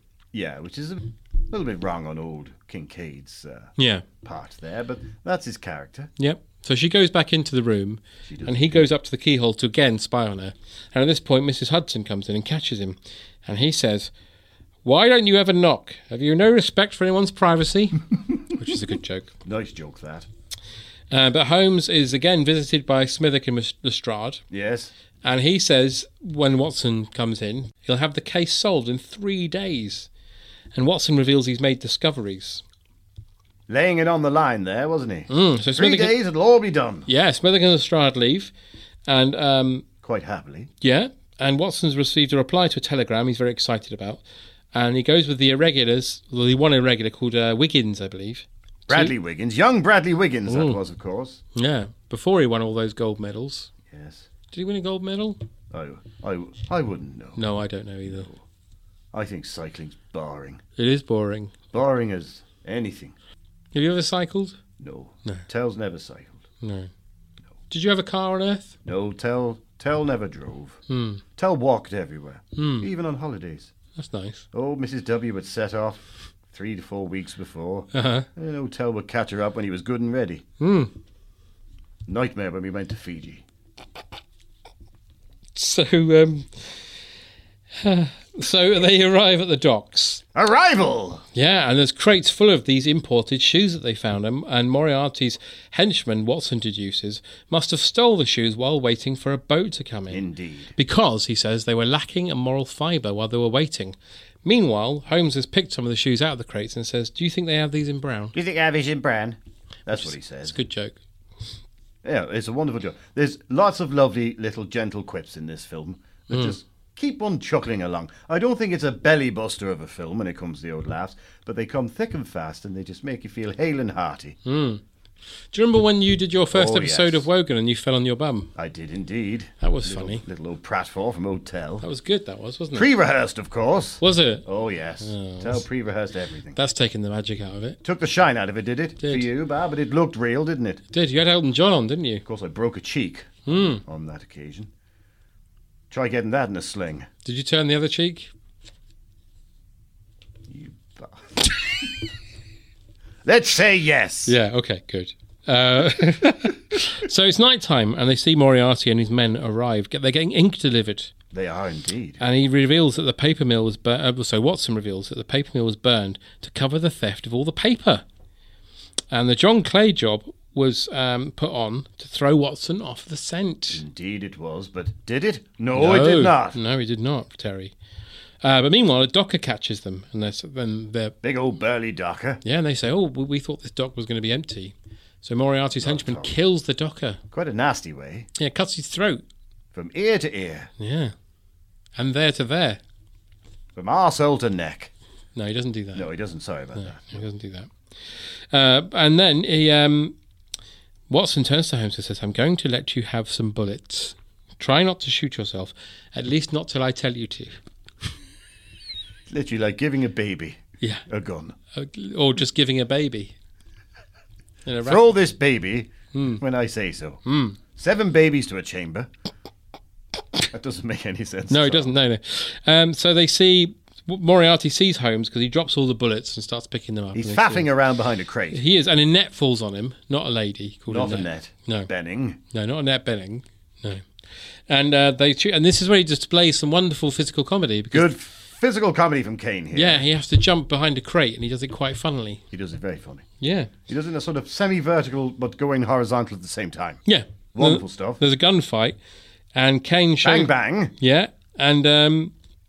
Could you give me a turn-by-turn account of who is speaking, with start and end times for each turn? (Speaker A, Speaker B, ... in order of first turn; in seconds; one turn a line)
Speaker A: 0.3-3.7
Speaker B: 3.8-4.0
Speaker A: 4.2-6.1
Speaker B: 6.2-14.1
Speaker A: 8.3-8.8
Speaker B: 14.8-19.3
Speaker A: 19.4-20.3
Speaker B: 21.1-24.4
Speaker A: 24.5-24.9
Speaker B: 25.2-30.1
Speaker B: 30.7-32.6
Speaker A: 33.7-37.1
Speaker B: 35.3-36.2
Speaker B: 37.1-38.5
Speaker B: 39.1-39.9
Speaker A: 40.0-40.7
Speaker B: 40.8-44.2
Speaker B: 44.7-49.1
Speaker A: 48.9-51.4
Speaker B: 50.5-50.8
Speaker B: 51.5-53.7
Speaker A: 53.9-54.3
Speaker B: 54.5-55.4
Speaker A: 55.7-57.4
Speaker B: 57.4-58.3
Speaker A: 58.1-58.4
Speaker A: 59.1-60.6
Speaker B: 60.8-61.5
Speaker A: 61.7-63.1
Speaker B: 63.7-64.6
Speaker A: 64.8-66.4
Speaker B: 66.6-66.9
Speaker B: 67.7-68.8
Speaker A: 68.8-70.8
Speaker B: 70.9-71.2
Speaker A: 71.4-73.7
Speaker B: 72.6-72.9
Speaker B: 74.0-74.5
Speaker A: 74.5-76.0
Speaker A: 76.5-80.4
Speaker B: 77.9-78.3
Speaker B: 80.6-80.9
Speaker A: 82.1-83.4
Speaker B: 85.6-86.8
Speaker B: 87.8-90.2
Speaker A: 90.3-91.2
Speaker B: 91.3-100.2
Speaker A: 100.1-100.7
Speaker B: 100.8-108.3
Speaker A: 108.3-110.6
Speaker B: 109.9-111.0
Speaker A: 112.0-124.4
Speaker B: 116.3-116.6
Speaker B: 124.5-124.8
Speaker B: 125.5-128.5
Speaker A: 126.5-127.3
Speaker A: 128.6-131.8
Speaker B: 129.6-130.2
Speaker B: 131.8-132.9
Speaker A: 132.7-136.6
Speaker B: 134.0-134.4
Speaker B: 135.0-135.7
Speaker B: 136.6-137.8
Speaker A: 137.8-140.8
Speaker B: 139.0-139.3
Speaker B: 140.9-142.2
Speaker A: 142.2-144.7
Speaker B: 143.4-143.8
Speaker A: 145.9-147.1
Speaker B: 147.2-148.3
Speaker A: 150.5-151.6
Speaker A: 153.2-154.4
Speaker B: 154.3-161.1
Speaker A: 161.3-162.2
Speaker B: 162.2-168.0
Speaker B: 169.1-173.8
Speaker A: 173.7-176.6
Speaker B: 175.7-177.7
Speaker B: 178.4-181.2
Speaker A: 181.2-182.4
Speaker B: 182.4-187.2
Speaker A: 185.8-186.3
Speaker A: 187.3-188.3
Speaker B: 188.4-189.2
Speaker A: 189.7-190.7
Speaker B: 190.8-191.1
Speaker B: 191.9-192.8
Speaker A: 193.8-194.9
Speaker B: 195.3-196.1
Speaker A: 195.9-197.2
Speaker B: 196.8-197.7
Speaker B: 198.5-200.1
Speaker B: 201.1-207.6
Speaker A: 209.3-211.6
Speaker B: 211.7-213.3
Speaker B: 214.7-215.1
Speaker A: 214.8-217.2
Speaker B: 216.1-216.4
Speaker B: 217.3-217.6
Speaker A: 217.7-219.1
Speaker A: 220.5-221.9
Speaker B: 221.5-227.7
Speaker A: 227.1-228.6
Speaker B: 228.5-231.9
Speaker A: 230.9-232.4
Speaker B: 232.5-234.1
Speaker B: 234.7-238.1
Speaker A: 237.9-240.0
Speaker B: 239.7-242.4
Speaker A: 242.5-243.3
Speaker B: 243.4-243.7
Speaker A: 243.9-247.0
Speaker B: 247.1-248.9
Speaker A: 247.5-248.2
Speaker B: 249.6-252.3
Speaker A: 250.2-250.9